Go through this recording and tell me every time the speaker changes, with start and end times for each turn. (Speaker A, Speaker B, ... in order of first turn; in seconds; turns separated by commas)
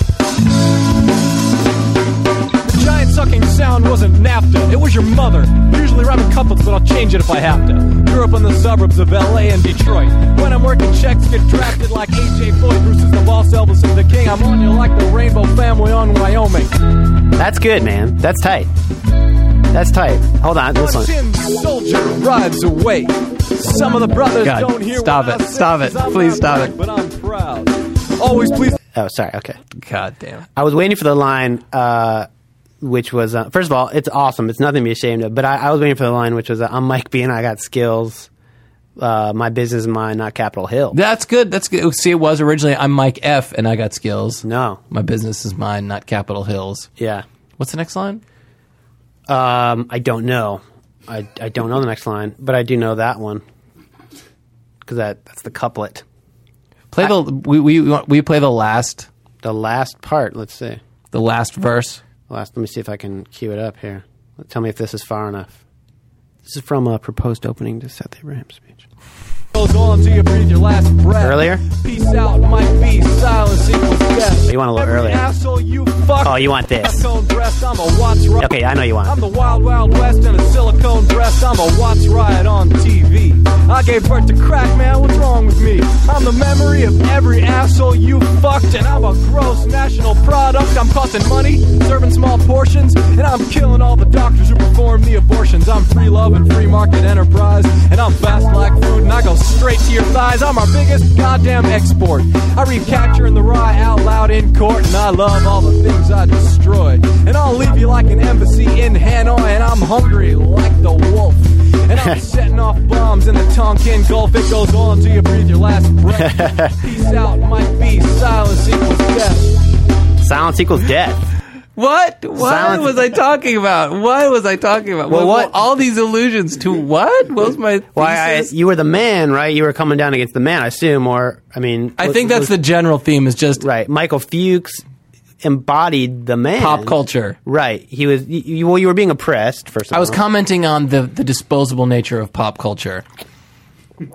Speaker A: 2.6-16.7, Speaker B: 17.4-18.7, Speaker B: 19.7-21.1, Speaker A: 20.7-28.8, Speaker C: 24.4-26.7, Speaker B: 28.9-29.6, Speaker C: 29.7-30.5, Speaker B: 30.6-32.3, Speaker B: 32.8-38.3, Speaker B: 39.0-41.0, Speaker C: 40.9-46.9, Speaker B: 44.4-44.8, Speaker B: 47.0-47.2, Speaker C: 47.6-48.2, Speaker B: 49.3-53.4, Speaker B: 54.8-56.0, Speaker C: 56.9-59.1, Speaker B: 59.4-60.8, Speaker C: 61.1-62.0, Speaker B: 62.3-65.6, Speaker B: 66.5-68.8, Speaker A: 69.5-119.6, Speaker B: 71.2-71.6, Speaker B: 74.5-75.2, Speaker B: 76.2-77.0, Speaker B: 78.4-79.1, Speaker B: 116.2-116.7, Speaker B: 120.2-121.3, Speaker C: 121.7-128.5, Speaker B: 122.4-122.9, Speaker B: 125.1-125.5, Speaker B: 127.9-132.5, Speaker C: 132.0-133.6, Speaker B: 133.6-134.8, Speaker B: 135.4-140.2, Speaker C: 136.6-137.4, Speaker C: 139.9-143.0